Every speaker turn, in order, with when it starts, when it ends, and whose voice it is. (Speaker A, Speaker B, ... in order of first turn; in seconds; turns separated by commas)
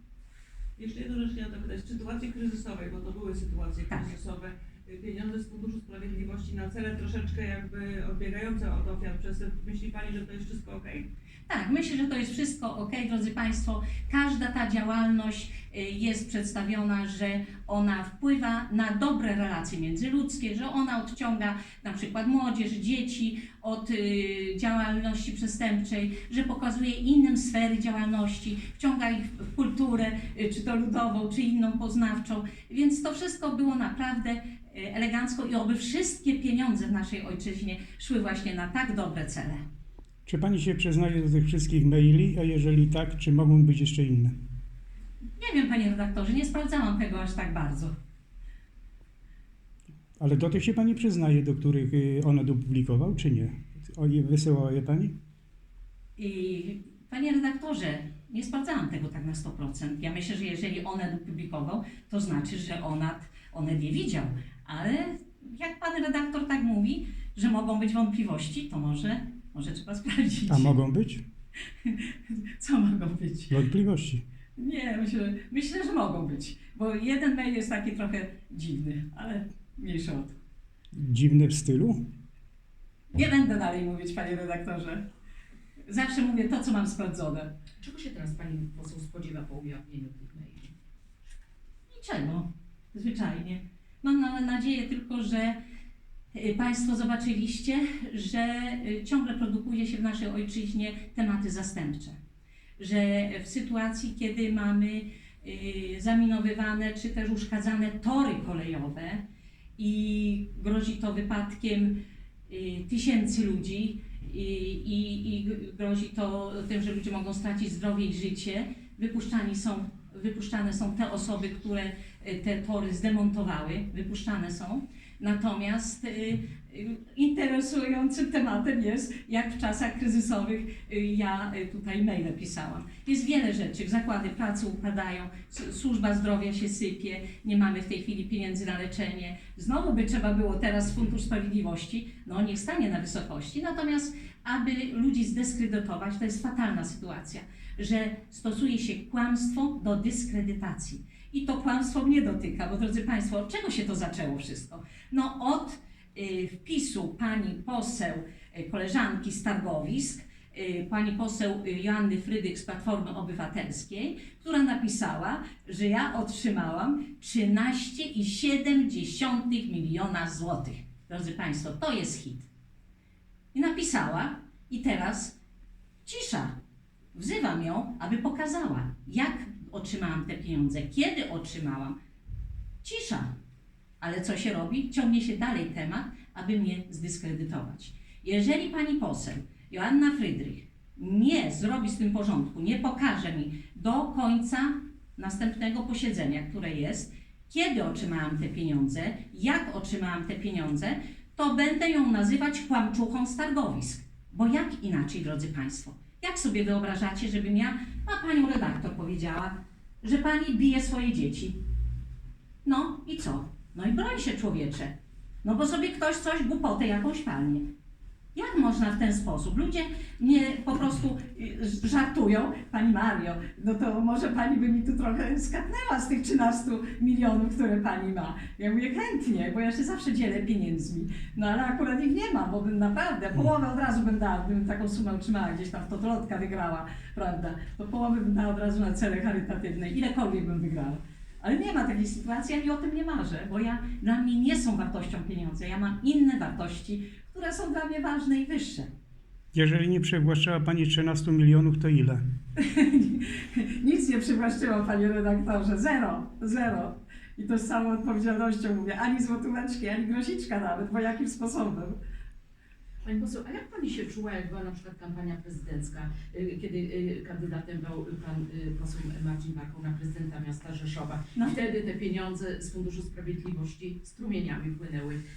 Speaker A: 0.8-11.1, Speaker B: 11.5-39.6, Speaker C: 40.2-44.3, Speaker B: 45.4-47.9, Speaker C: 50.2-55.1, Speaker B: 56.2-70.8, Speaker C: 70.5-71.2, Speaker B: 71.8-73.6, Speaker C: 73.5-74.2, Speaker B: 74.6-80.3, Speaker C: 81.0-82.0, Speaker B: 83.1-85.0, Speaker B: 85.9-87.5, Speaker D: 87.8-90.7, Speaker B: 91.9-95.6, Speaker B: 96.3-102.1, Speaker B: 102.8-109.2, Speaker B: 109.8-172.5, Speaker B: 173.5-175.3, Speaker B: 176.0-176.6, Speaker B: 177.1-182.0, Speaker B: 182.8-183.3, Speaker B: 184.0-211.6, Speaker B: 212.6-214.9, Speaker B: 215.4-217.6, Speaker B: 218.3-248.9, Speaker C: 249.5-252.2, Speaker B: 252.6-262.0, Speaker D: 263.0-275.2, Speaker B: 271.3-271.6